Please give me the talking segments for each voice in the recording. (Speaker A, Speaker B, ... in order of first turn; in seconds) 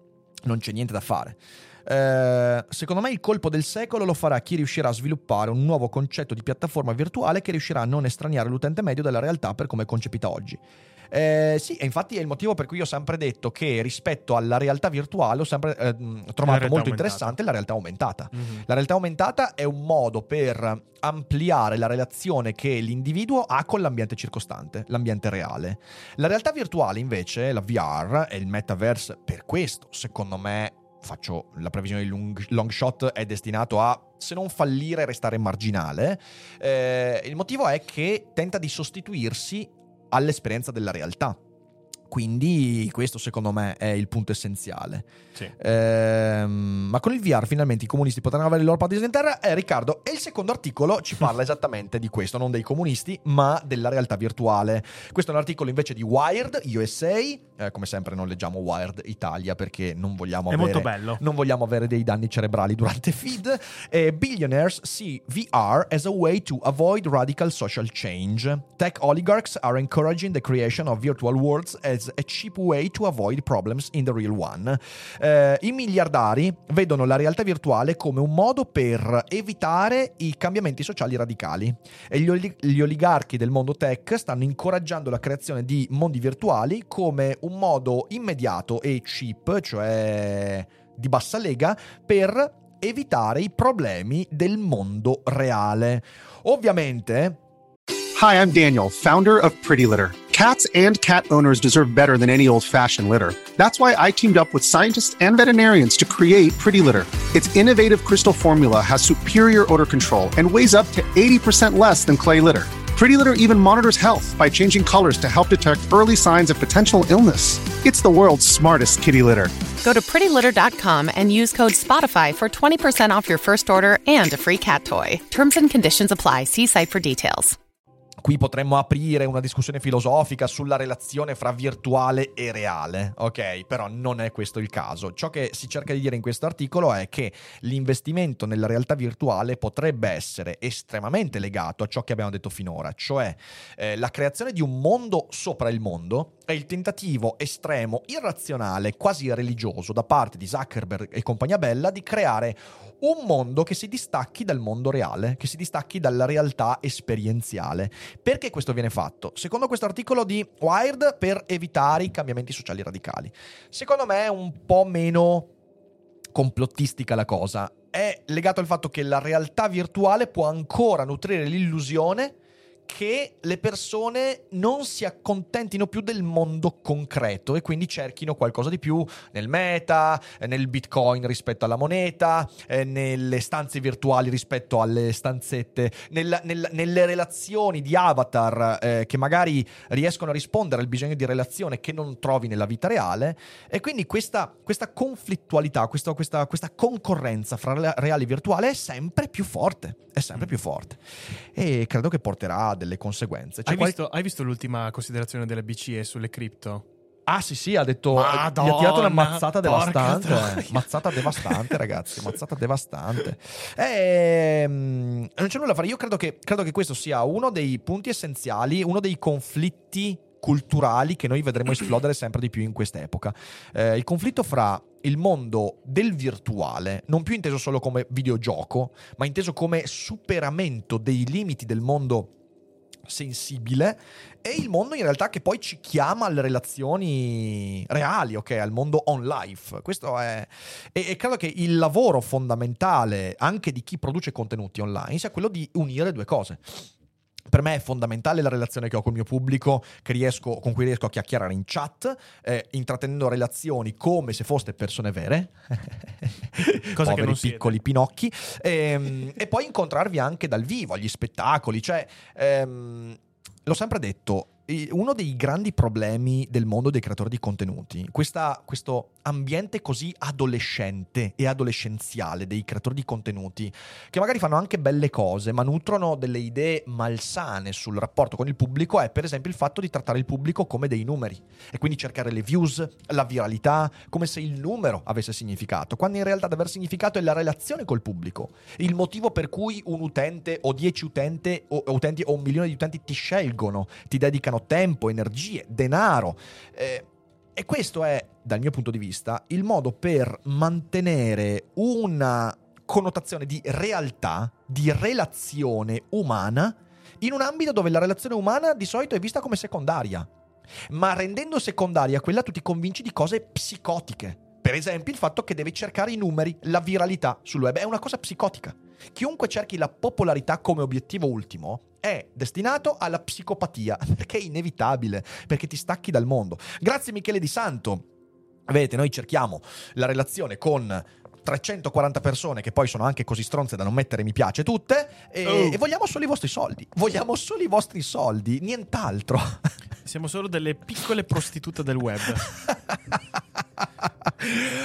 Speaker A: 0.4-41.4, 42.1-97.4, 128.2-165.5, 166.3-172.3, 172.9-201.0, 201.5-203.9, 207.3-232.3, 233.1-246.9, 247.5-310.3, 310.9-328.0, 328.7-339.6
Speaker B: 16.4-17.4, 18.3-18.6, 60.5-61.2, 203.7-206.8, 208.1-211.8, 256.9-257.8, 335.4-335.8, 340.0-342.5
Speaker C: 98.2-119.6
Speaker D: 119.8-127.6